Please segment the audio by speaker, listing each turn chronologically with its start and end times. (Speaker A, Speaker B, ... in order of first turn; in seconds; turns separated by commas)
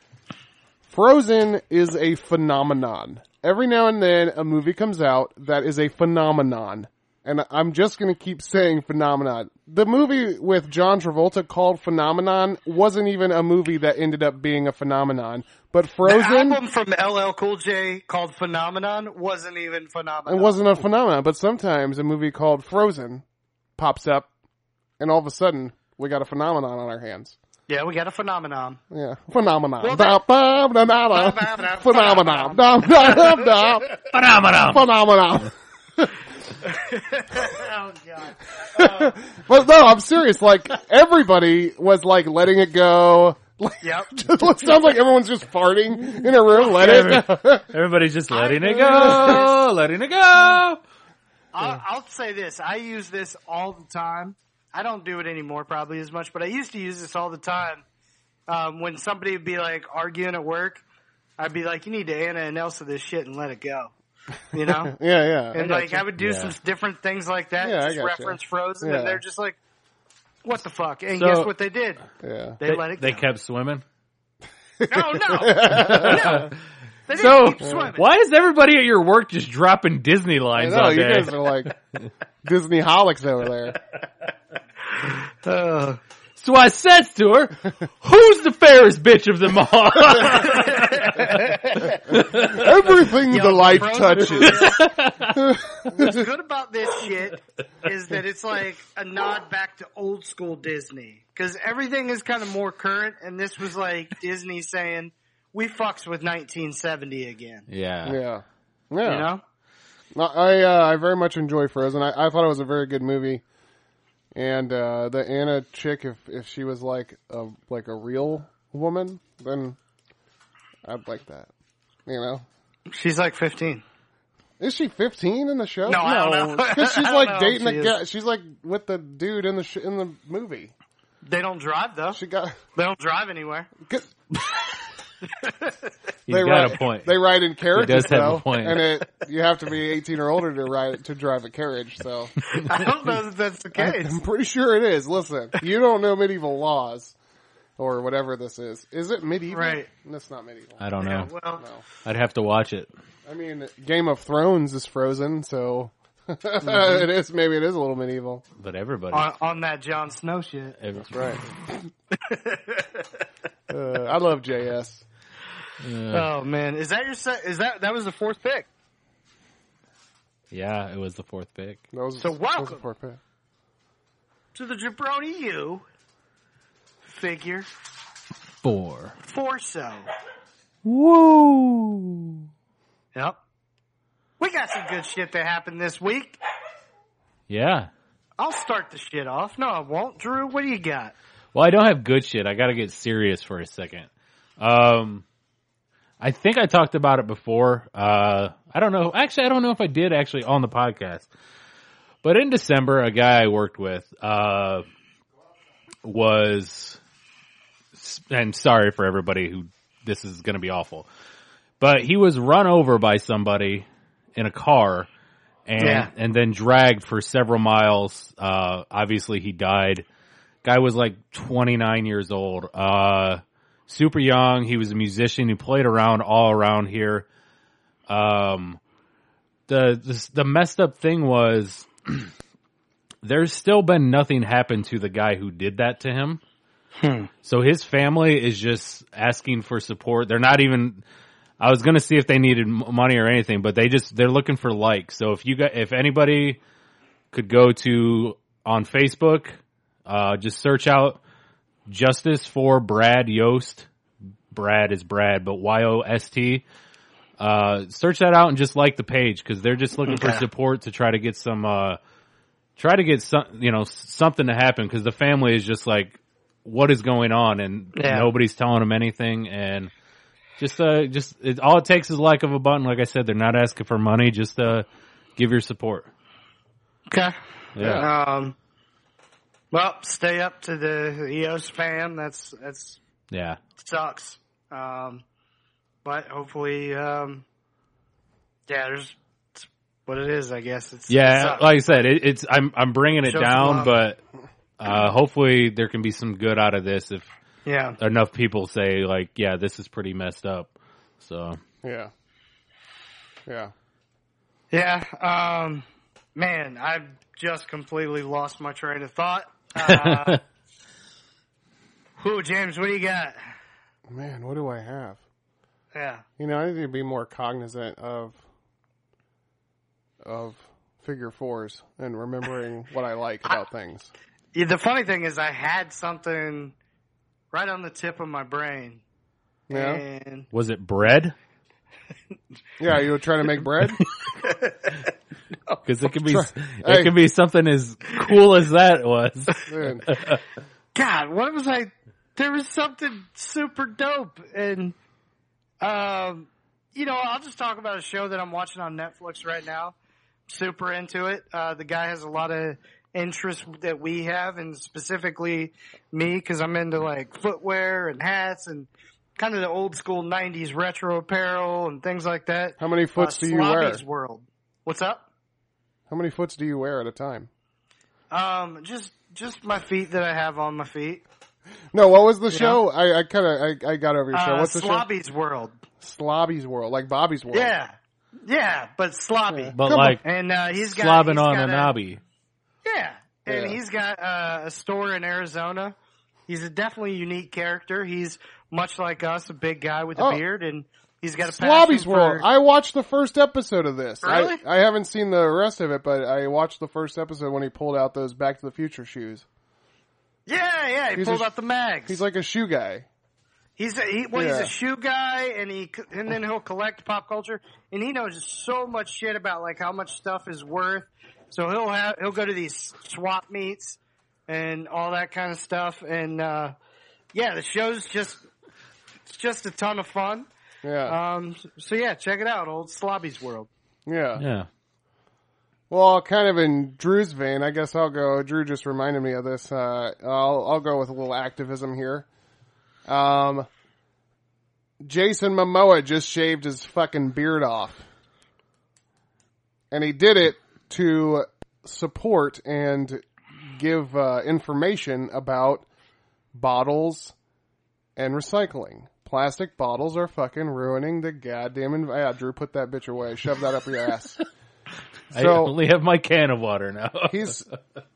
Speaker A: 0.9-16.6, Speaker B: 16.0-20.6, Speaker A: 20.3-23.2, Speaker A: 23.8-24.3, Speaker A: 25.0-27.4, Speaker B: 27.7-28.8, Speaker A: 28.9-34.0, Speaker B: 29.8-30.2, Speaker B: 31.1-33.7, Speaker C: 34.1-34.9, Speaker A: 34.6-36.2, Speaker B: 36.6-39.2, Speaker A: 38.7-47.7, Speaker B: 43.8-44.1, Speaker C: 46.6-50.8, Speaker B: 48.3-49.5, Speaker A: 48.9-49.4, Speaker B: 51.5-57.8, Speaker B: 58.5-60.8, Speaker B: 61.4-63.9, Speaker B: 64.5-64.9, Speaker A: 64.5-66.0, Speaker B: 65.5-69.6, Speaker C: 66.2-66.5, Speaker A: 67.6-69.2, Speaker B: 70.4-72.0, Speaker C: 71.1-71.5, Speaker A: 72.2-72.6, Speaker B: 72.6-73.2, Speaker C: 72.6-73.8, Speaker A: 74.8-76.5, Speaker B: 74.9-76.5, Speaker C: 75.7-76.5, Speaker B: 77.1-78.0, Speaker C: 77.1-81.8, Speaker A: 77.6-77.9, Speaker A: 80.5-81.7, Speaker A: 82.4-83.8, Speaker B: 85.0-86.0, Speaker C: 86.4-92.8, Speaker B: 90.3-92.0, Speaker A: 92.3-94.8, Speaker B: 93.3-94.9, Speaker C: 94.2-95.6, Speaker A: 95.3-96.2, Speaker B: 95.9-107.7, Speaker C: 107.7-108.2, Speaker A: 108.0-109.3, Speaker B: 109.0-109.4, Speaker A: 110.1-113.4, Speaker A: 114.3-119.8, Speaker A: 120.8-121.5, Speaker A: 122.0-122.4, Speaker B: 122.9-123.8, Speaker A: 124.6-130.7, Speaker B: 125.8-128.0, Speaker B: 131.2-132.2, Speaker A: 132.1-132.6, Speaker B: 132.7-133.7, Speaker A: 133.8-134.1, Speaker B: 135.2-135.9, Speaker C: 136.3-139.0, Speaker A: 136.3-142.3, Speaker B: 142.5-144.2, Speaker A: 143.7-147.2, Speaker A: 147.8-150.8, Speaker B: 149.5-149.9, Speaker C: 150.8-151.3, Speaker B: 151.0-151.6, Speaker A: 151.6-151.8, Speaker C: 152.0-152.9, Speaker A: 153.2-158.4, Speaker C: 158.6-159.3, Speaker B: 159.1-160.8, Speaker C: 160.8-161.5, Speaker A: 161.0-161.4, Speaker B: 162.1-163.1, Speaker A: 163.7-165.0, Speaker C: 165.8-166.3, Speaker B: 166.1-168.7, Speaker C: 170.5-171.8, Speaker A: 171.9-173.2, Speaker B: 172.2-172.8, Speaker B: 174.5-175.8, Speaker B: 177.0-177.7, Speaker C: 178.6-179.2, Speaker B: 179.2-180.1, Speaker C: 180.8-182.4, Speaker B: 184.4-186.4, Speaker C: 187.5-187.9, Speaker B: 188.4-191.1, Speaker C: 191.5-194.1, Speaker C: 194.6-195.2, Speaker C: 196.2-201.3, Speaker C: 202.2-204.8, Speaker C: 206.0-207.0, Speaker C: 207.9-211.1, Speaker C: 211.8-215.1, Speaker C: 215.7-220.1, Speaker B: 215.8-216.1, Speaker C: 220.6-227.2, Speaker C: 228.1-228.8, Speaker C: 229.7-232.3, Speaker C: 233.2-236.4, Speaker B: 237.0-237.3, Speaker C: 237.4-241.0, Speaker C: 241.6-246.6, Speaker C: 247.3-251.2, Speaker C: 251.9-253.9, Speaker C: 254.5-256.6, Speaker C: 257.4-262.0, Speaker B: 260.0-260.4, Speaker C: 262.8-269.9, Speaker B: 267.9-268.3, Speaker C: 270.6-274.9, Speaker C: 275.4-276.1, Speaker B: 277.1-278.6, Speaker C: 277.8-278.1, Speaker A: 277.8-278.1, Speaker B: 279.7-283.0, Speaker C: 283.3-283.6, Speaker B: 283.8-285.2, Speaker B: 286.0-287.4, Speaker B: 288.7-291.8, Speaker C: 291.1-294.2, Speaker B: 293.2-293.9, Speaker C: 294.8-297.3, Speaker B: 297.6-298.0, Speaker C: 298.0-301.6, Speaker A: 301.8-302.1, Speaker A: 303.5-303.7, Speaker B: 304.7-305.8, Speaker B: 306.4-310.4, Speaker C: 309.8-310.4, Speaker B: 312.2-313.4, Speaker A: 314.1-315.2, Speaker B: 315.9-316.2, Speaker A: 316.4-318.4, Speaker A: 320.2-324.1, Speaker B: 324.5-326.7, Speaker B: 327.5-329.0, Speaker A: 329.7-330.0, Speaker B: 329.7-330.5, Speaker C: 330.5-331.3, Speaker A: 332.8-334.0, Speaker B: 334.3-334.9, Speaker C: 335.8-340.4, Speaker A: 336.2-337.1, Speaker A: 339.6-340.1, Speaker B: 340.9-344.9, Speaker B: 345.8-349.9, Speaker B: 350.5-365.2, Speaker A: 362.8-364.0, Speaker A: 366.1-367.5, Speaker B: 368.3-371.2, Speaker A: 371.9-375.1, Speaker B: 372.5-372.8, Speaker B: 374.3-375.8, Speaker A: 376.0-377.7, Speaker B: 377.5-381.9, Speaker A: 379.5-380.2, Speaker C: 379.8-380.2, Speaker C: 380.8-382.2, Speaker B: 382.8-385.9, Speaker A: 383.5-383.8, Speaker B: 386.5-392.4, Speaker A: 390.1-390.4, Speaker A: 391.4-399.4, Speaker B: 394.2-394.6, Speaker B: 400.5-402.2, Speaker A: 401.1-401.5, Speaker A: 402.1-403.1, Speaker B: 403.8-416.7, Speaker A: 404.3-404.7, Speaker B: 417.3-418.4, Speaker B: 419.2-420.5, Speaker A: 420.8-421.2, Speaker B: 421.1-423.7, Speaker A: 424.1-424.4, Speaker C: 424.4-424.7, Speaker A: 425.9-432.2, Speaker A: 433.1-433.7, Speaker A: 435.0-438.0, Speaker A: 439.9-445.8, Speaker A: 446.5-447.3, Speaker A: 448.1-454.4, Speaker A: 455.3-455.7, Speaker C: 455.3-457.7, Speaker A: 457.3-457.6